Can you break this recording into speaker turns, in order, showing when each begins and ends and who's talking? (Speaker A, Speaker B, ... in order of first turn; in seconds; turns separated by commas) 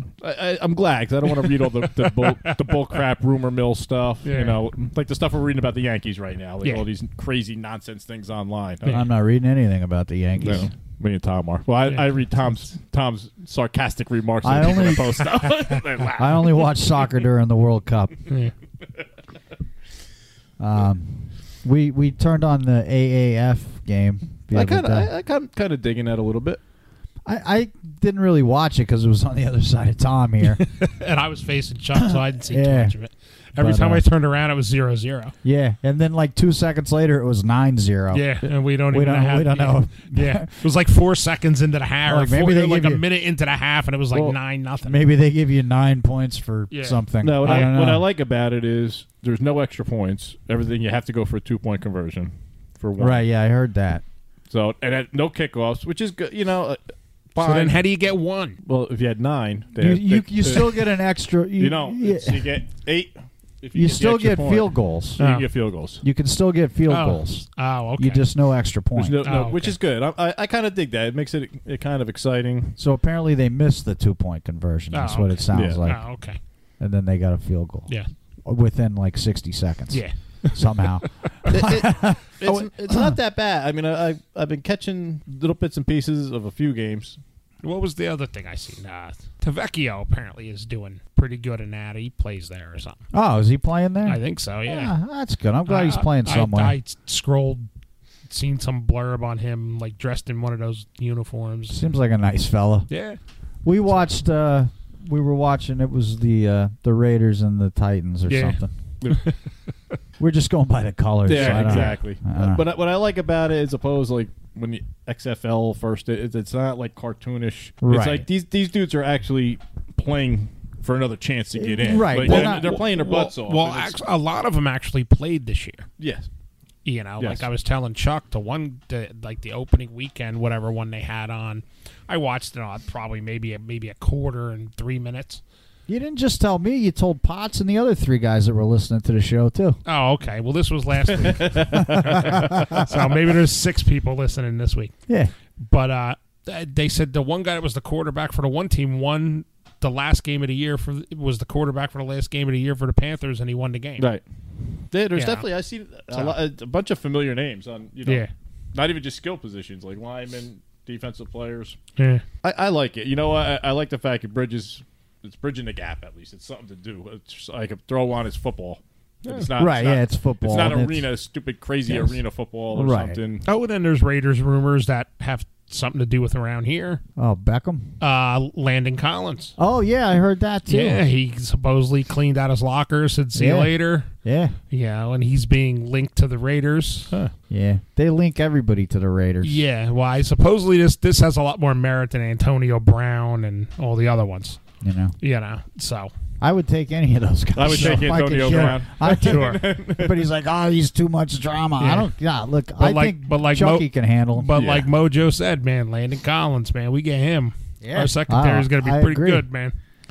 Speaker A: 0.2-9.0, Speaker B: 2.0-2.5, Speaker B: 4.2-4.6, Speaker B: 6.6-6.9, Speaker C: 8.9-10.7, Speaker A: 10.4-16.6, Speaker C: 14.4-15.4, Speaker C: 16.1-18.2, Speaker C: 20.6-25.1, Speaker A: 24.5-26.6, Speaker C: 27.2-30.6, Speaker B: 30.6-35.3, Speaker C: 32.0-32.9, Speaker C: 33.6-34.0, Speaker C: 35.4-38.3, Speaker B: 38.1-45.0, Speaker C: 38.9-40.5, Speaker C: 42.0-43.0, Speaker C: 44.8-48.0, Speaker B: 46.7-47.8, Speaker A: 47.2-53.2, Speaker C: 53.0-54.0, Speaker A: 54.5-56.8, Speaker A: 57.3-57.8, Speaker B: 57.4-58.6, Speaker A: 58.6-60.9, Speaker C: 59.8-62.5, Speaker A: 61.6-66.0, Speaker C: 63.7-65.2, Speaker B: 65.2-65.5, Speaker C: 66.0-69.2, Speaker B: 66.9-68.2, Speaker A: 69.0-72.8, Speaker B: 69.2-69.8, Speaker C: 72.8-76.0, Speaker B: 74.9-76.4, Speaker A: 75.5-75.8, Speaker C: 76.8-77.9, Speaker C: 78.4-83.2, Speaker B: 79.9-80.6, Speaker A: 81.5-87.2, Speaker B: 87.6-93.0, Speaker C: 93.1-96.8, Speaker B: 94.0-94.9, Speaker B: 95.7-97.7, Speaker B: 98.2-101.8, Speaker C: 101.7-102.9, Speaker B: 102.9-103.2, Speaker C: 103.6-108.7, Speaker B: 108.3-109.3, Speaker A: 109.0-109.3, Speaker C: 110.2-112.6, Speaker A: 111.2-124.0, Speaker B: 111.3-112.0, Speaker C: 117.8-118.2, Speaker C: 121.6-122.8, Speaker B: 122.2-125.9, Speaker A: 126.0-126.3, Speaker B: 126.8-135.4, Speaker A: 127.2-127.5, Speaker C: 135.9-139.8, Speaker B: 139.8-144.9, Speaker A: 141.1-142.8, Speaker C: 141.8-142.2, Speaker C: 145.1-145.3, Speaker B: 145.6-154.1, Speaker A: 154.9-158.2, Speaker B: 155.1-155.4, Speaker B: 158.0-158.3, Speaker A: 158.7-161.8, Speaker B: 162.0-162.2, Speaker A: 162.4-173.4, Speaker C: 169.6-171.1, Speaker C: 171.9-172.2, Speaker C: 172.7-173.2, Speaker B: 173.4-177.0, Speaker C: 177.2-177.9, Speaker B: 178.0-179.5, Speaker C: 179.6-181.0, Speaker B: 180.7-184.1, Speaker C: 183.3-184.5, Speaker B: 184.7-187.1, Speaker C: 187.5-189.6, Speaker B: 189.4-194.6, Speaker C: 194.8-195.1, Speaker B: 195.2-196.1, Speaker C: 196.4-204.5, Speaker A: 197.6-200.2, Speaker B: 197.7-199.6, Speaker B: 201.8-202.1, Speaker B: 202.8-209.8, Speaker A: 204.5-204.9, Speaker C: 207.8-209.5